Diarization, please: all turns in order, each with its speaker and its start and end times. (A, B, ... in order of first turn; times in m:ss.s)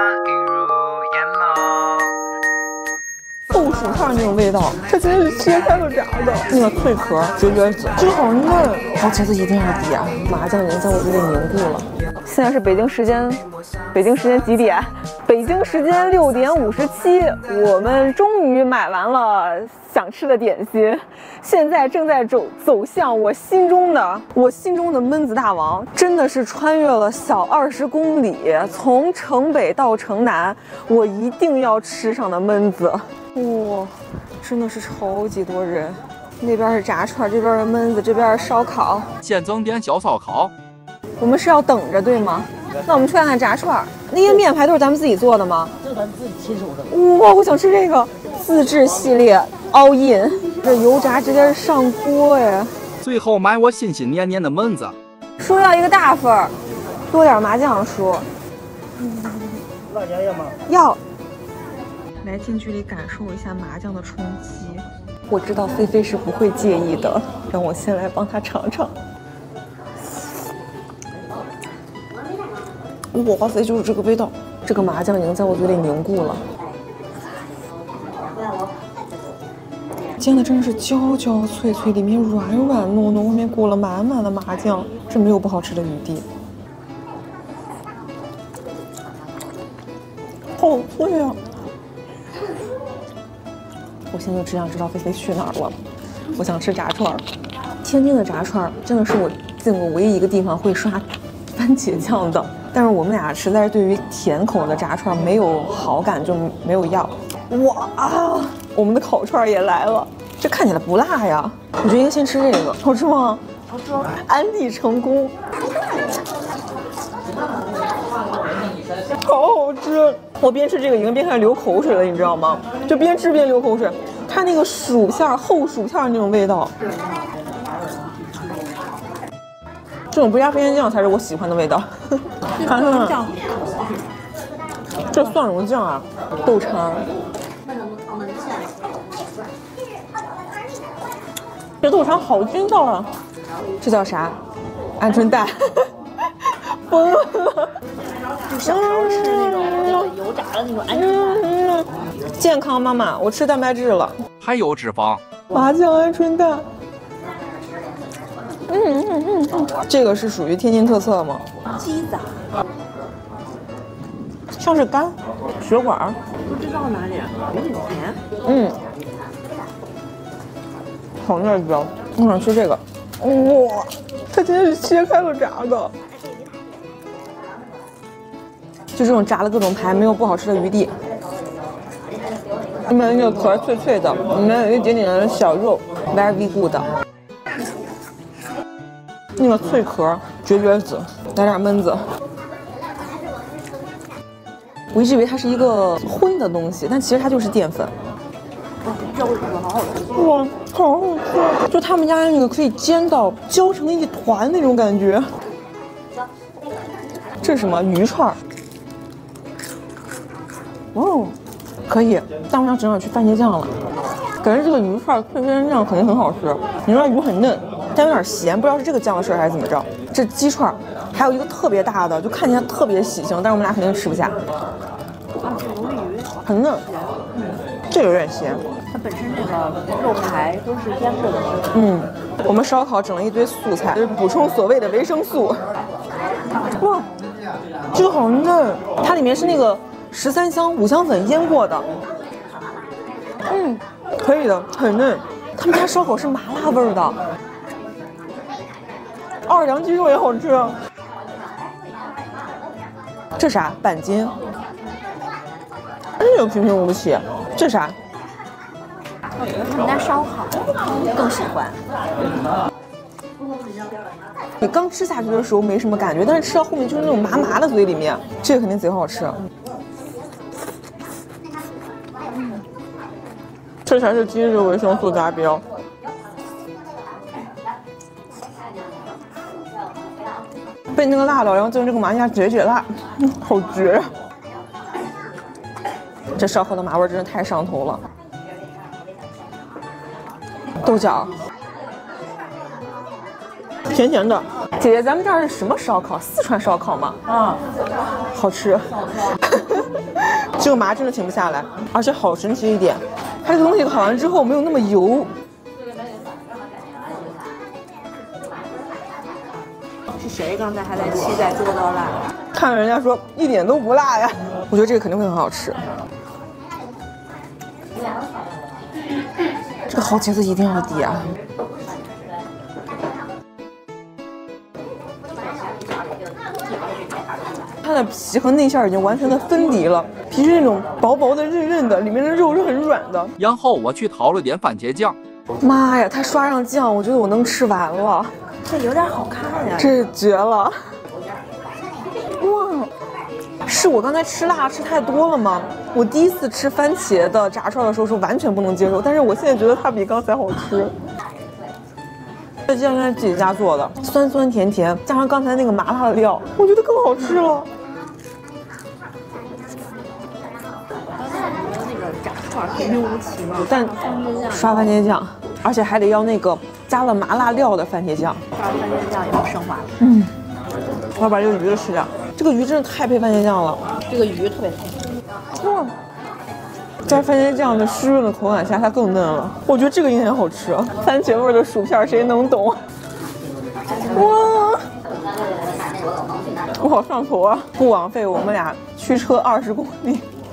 0:03.5-0:13.4 A
0:13.9-0:39.1 A
0:39.2-0:40.5 B
0:41.2-0:45.7 A
0:46.9-0:52.8 A
0:53.0-0:55.0 B
0:55.4-0:56.5 A
0:57.1-0:58.3 A
0:59.0-0:59.4 A
1:00.7-1:01.0 A
1:02.2-1:09.0 A
1:13.1-1:16.4 A
1:20.2-1:26.3 A
1:30.6-1:31.4 A
1:34.1-1:35.8 A
1:36.4-1:37.2 A
1:37.8-1:41.0 A
1:41.6-1:53.4 A
1:53.7-1:54.1 C
1:54.1-1:55.4 A
1:59.2-2:06.7 A
2:08.1-2:08.7 C
2:10.1-2:13.2 A
2:12.6-2:13.6 C
2:15.1-2:17.1 A
2:21.8-2:23.1 A
2:23.8-2:24.4 A
2:25.0-2:25.9 A
2:26.7-2:27.7 A
2:28.4-2:31.5 C
2:28.7-2:30.1 A
2:30.9-2:34.2 A
2:34.4-2:35.2 B
2:35.5-2:36.6 A
2:38.7-2:41.4 A
2:41.7-2:42.4 C
2:44.5-2:46.2 A
2:46.4-2:48.2 C
2:48.5-2:48.8 A
2:51.2-2:55.9 A
2:59.0-3:00.9 A
3:02.9-3:06.9 A
3:09.4-3:12.0 A
3:14.9-3:17.9 A
3:18.8-3:20.1 C
3:20.1-3:25.3 A
3:27.4-3:28.4 A
3:30.9-3:31.4 A
3:31.9-3:33.7 A
3:34.4-3:44.3 A
3:45.3-3:47.6 C
3:46.4-3:46.8 A
3:47.9-3:48.6 A
3:48.9-3:51.7 C
3:51.7-3:55.6 A
3:56.8-3:57.1 A
3:57.9-4:01.9 A
4:03.5-4:07.2 A
4:09.5-4:10.8 A
4:13.4-4:14.3 A
4:16.2-4:18.0 A
4:19.4-4:21.8 C
4:24.6-4:29.4 A
4:33.9-4:35.6 A
4:40.9-4:44.1 A
4:46.4-4:48.0 A
4:50.8-4:51.4 A
4:53.9-4:57.2 A
4:58.3-5:05.3 A
5:10.2-5:12.2 C
5:12.5-5:15.8 A
5:19.9-5:21.3 A
5:27.8-5:33.3 A
5:33.4-5:35.2 B
5:35.6-5:38.3 A
5:38.7-5:40.0 C
5:39.8-5:40.8 A
5:42.4-5:42.9 A
5:43.6-5:50.9 A
5:52.7-5:57.7 A
6:01.2-6:05.0 C
6:03.6-6:04.0 A
6:04.5-6:08.4 A
6:08.5-6:09.9 C
6:10.0-6:10.4 A
6:11.2-6:13.8 A
6:14.1-6:15.0 C
6:15.6-6:15.9 A
6:17.1-6:22.8 A
6:24.1-6:24.8 A
6:26.8-6:30.2 A